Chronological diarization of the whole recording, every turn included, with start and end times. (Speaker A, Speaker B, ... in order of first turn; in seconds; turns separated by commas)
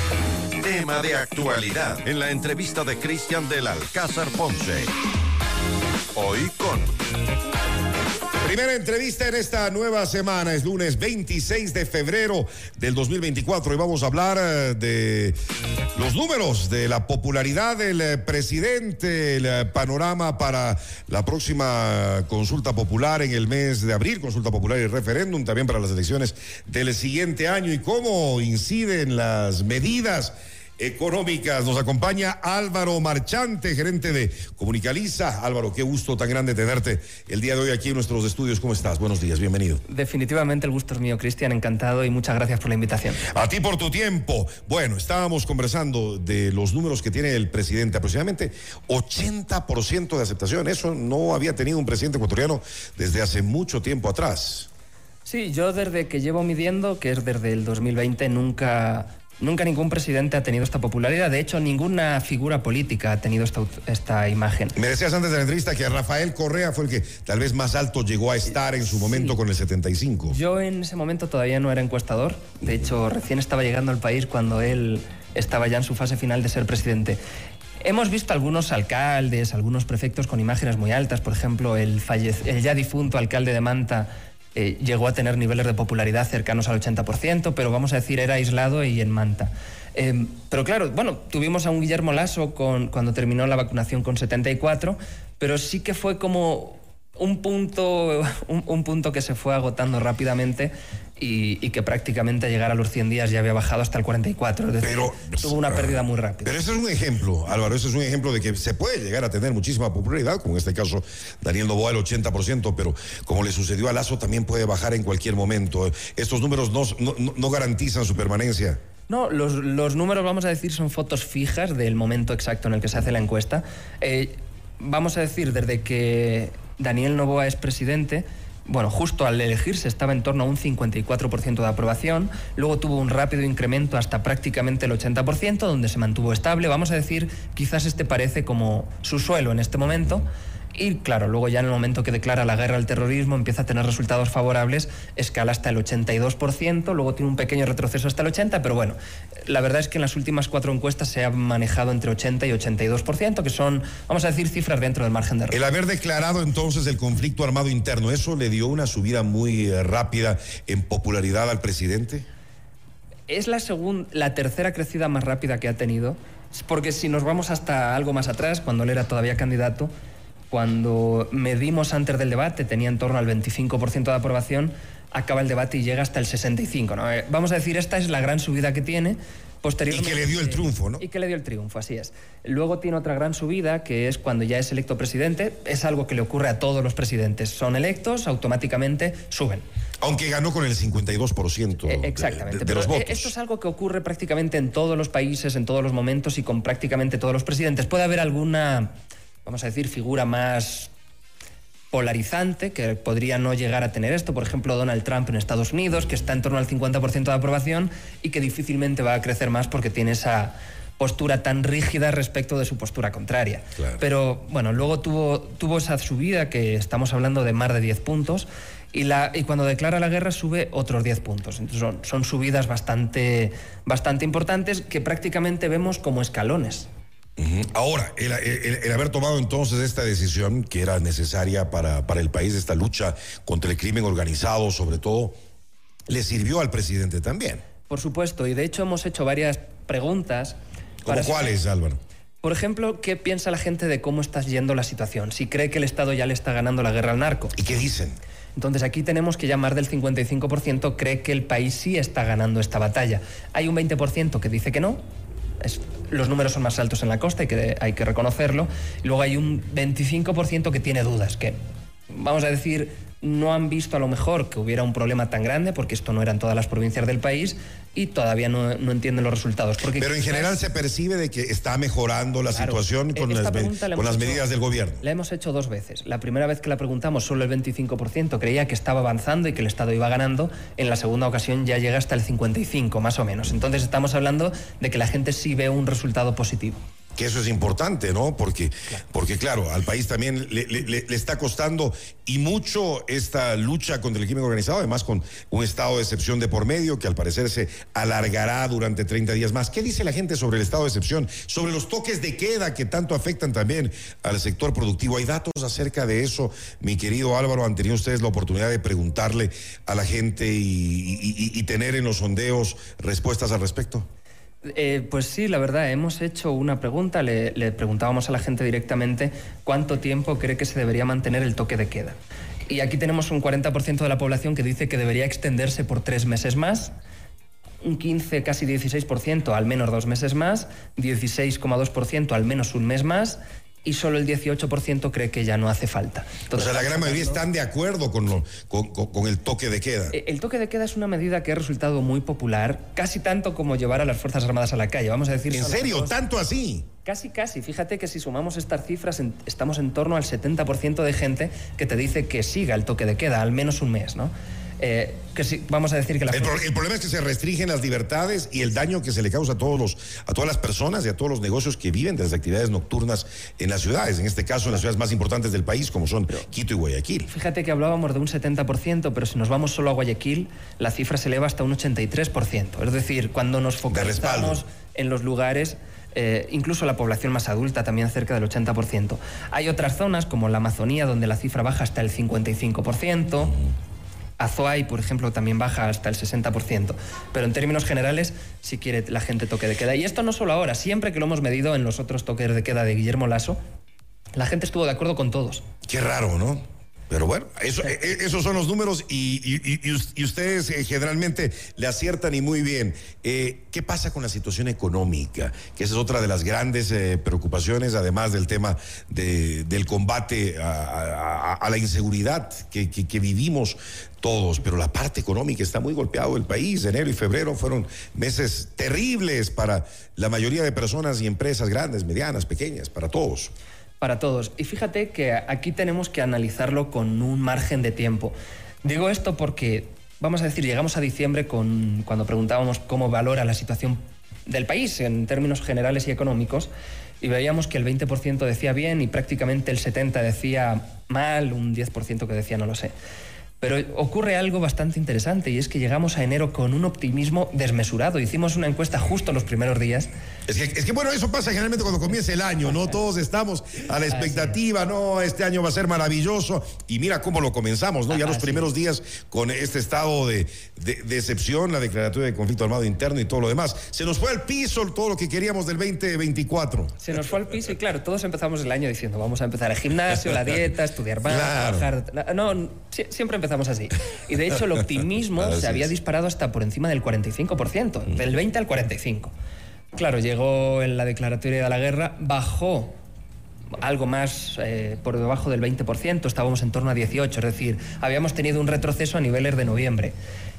Speaker A: 0.6-4.9, Speaker A: 6.1-6.9, Speaker B: 8.4-15.4, Speaker B: 15.9-39.8, Speaker C: 39.9-43.2, Speaker B: 43.2-54.7, Speaker C: 55.2-64.8, Speaker B: 64.8-70.3, Speaker C: 68.8-69.4, Speaker C: 70.3-77.2, Speaker C: 77.8-106.5, Speaker B: 104.8-118.8, Speaker C: 119.1-155.6, Speaker B: 155.5-162.3, Speaker C: 163.3-169.9, Speaker C: 170.5-189.6, Speaker B: 179.9-181.0, Speaker B: 190.0-193.3, Speaker C: 191.8-200.9, Speaker C: 201.9-226.9, Speaker B: 227.4-235.3, Speaker B: 236.1-237.6, Speaker C: 237.9-241.6, Speaker B: 241.0-242.0, Speaker C: 242.4-247.5, Speaker B: 247.6-248.2, Speaker C: 248.6-255.0, Speaker C: 255.6-261.6, Speaker C: 262.1-270.6, Speaker B: 270.0-275.0, Speaker C: 272.5-274.4, Speaker C: 275.0-286.8, Speaker B: 287.1-314.1, Speaker C: 314.6-322.2, Speaker C: 322.7-326.9, Speaker C: 327.8-337.4, Speaker B: 336.5-340.1, Speaker C: 340.1-346.2, Speaker B: 345.5-346.9, Speaker C: 347.0-356.7, Speaker B: 356.3-367.3, Speaker C: 367.3-383.6, Speaker B: 373.9-374.6, Speaker C: 384.4-393.6, Speaker C: 394.4-395.6, Speaker B: 395.9-423.5, Speaker C: 424.0-436.7, Speaker C: 437.2-442.9, Speaker C: 443.6-450.1, Speaker B: 450.5-467.0, Speaker C: 454.1-454.6, Speaker C: 458.1-458.7, Speaker C: 467.0-479.3, Speaker B: 471.2-471.9, Speaker B: 475.4-475.9, Speaker C: 479.9-482.9, Speaker C: 483.8-490.1